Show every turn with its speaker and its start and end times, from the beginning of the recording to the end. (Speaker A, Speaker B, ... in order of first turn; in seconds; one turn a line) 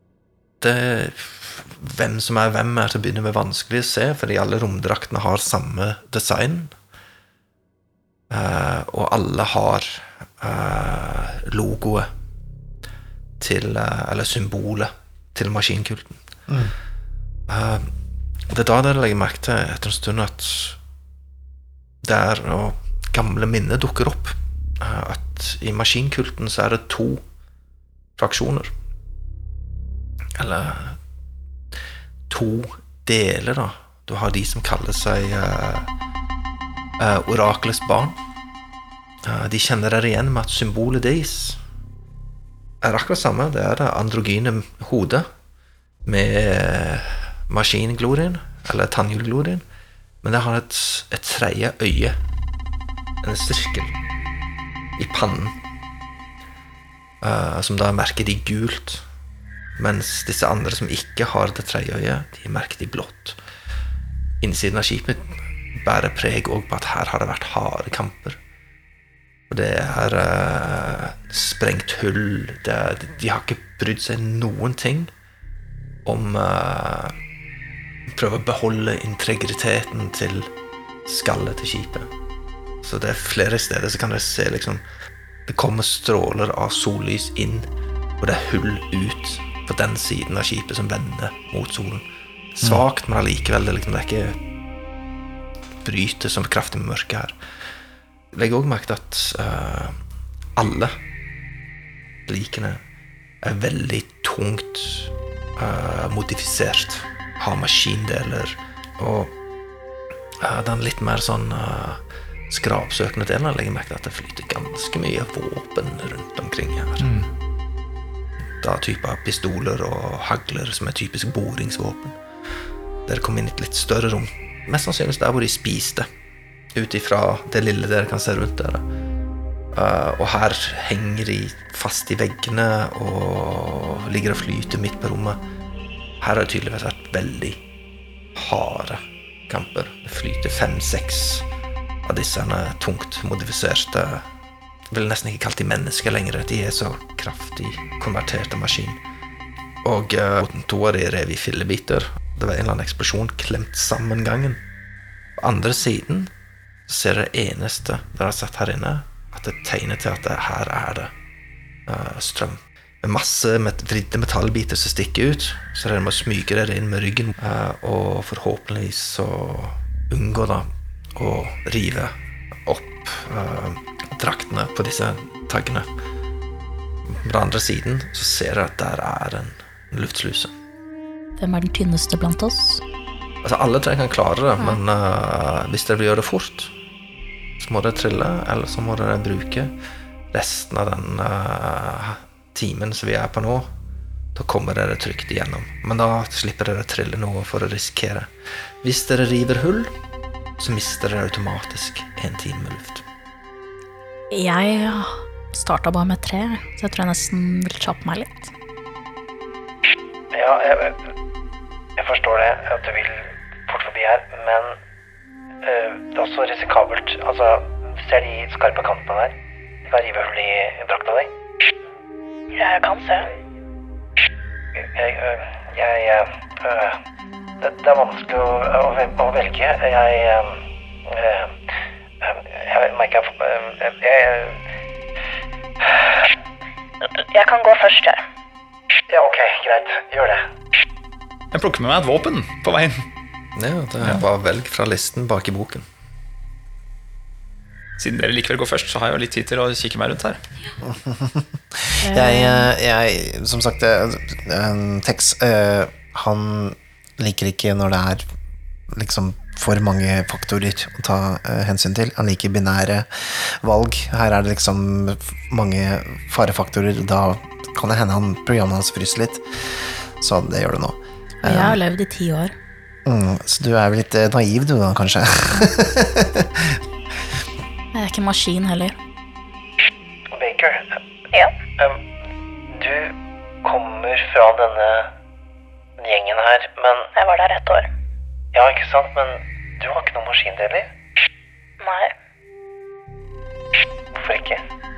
Speaker A: 0.6-6.8
Speaker A: 8.3-12.1
Speaker A: 13.4-16.2
Speaker A: 17.5-17.9
Speaker A: 18.5-20.8
Speaker A: 22.0-27.2
Speaker A: 28.2-28.7
Speaker A: 30.4-31.0
Speaker A: 32.3-35.9
Speaker A: 37.0-38.2
Speaker A: 39.2-41.6
Speaker A: 42.8-45.3
Speaker A: 46.1-49.6
Speaker A: 50.2-52.1
Speaker A: 53.2-53.9
Speaker A: 55.0-55.5
Speaker A: 57.2-59.0
Speaker A: 59.8-63.4
Speaker A: 64.4-68.4
Speaker A: 69.5-75.1
Speaker A: 76.0-77.1
Speaker A: 78.1-80.5
Speaker A: 81.1-82.1
Speaker A: 82.8-84.8
Speaker A: 85.5-87.7
Speaker A: 88.2-94.4
Speaker A: 95.8-97.4
Speaker A: 98.3-100.0
Speaker A: 100.6-100.9
Speaker A: 102.3-102.8
Speaker A: 103.4-109.3
Speaker A: 110.4-117.1
Speaker B: 117.0-117.3
Speaker A: 118.6-122.2
Speaker A: 123.1-126.1
Speaker A: 126.8-128.8
Speaker A: 129.7-135.4
Speaker A: 136.2-137.6
Speaker A: 138.3-141.4
Speaker A: 142.1-144.2
Speaker A: 144.9-149.0
Speaker A: 149.8-154.6
Speaker A: 155.4-156.3
Speaker A: 156.9-161.1
Speaker A: 161.9-172.1
Speaker A: 172.7-175.9
Speaker A: 177.1-180.5
Speaker C: 181.4-182.8
Speaker A: 183.4-186.7
Speaker A: 187.6-189.7
Speaker A: 190.3-193.7
Speaker A: 194.3-198.3
Speaker A: 198.8-199.9
Speaker A: 200.6-203.0
Speaker C: 204.3-208.5
Speaker D: 210.3-211.0
Speaker D: 212.0-214.8
Speaker D: 215.6-219.3
Speaker D: 219.9-221.3
Speaker E: 222.5-223.3
Speaker D: 224.8-227.0
Speaker D: 227.6-231.5
Speaker D: 232.2-234.6
Speaker E: 237.2-238.2
Speaker D: 239.1-240.5
Speaker B: 241.5-243.1
Speaker A: 243.6-245.8
Speaker B: 248.0-250.4
Speaker F: 250.8-258.2
Speaker C: 252.1-252.7
Speaker F: 258.9-271.8
Speaker C: 271.4-272.5
Speaker F: 273.1-276.8
Speaker C: 277.9-279.0
Speaker D: 280.3-281.0
Speaker D: 282.7-285.1
Speaker D: 286.0-287.1
Speaker E: 287.1-287.9
Speaker D: 288.5-290.9
Speaker E: 291.8-292.1
Speaker D: 294.1-294.6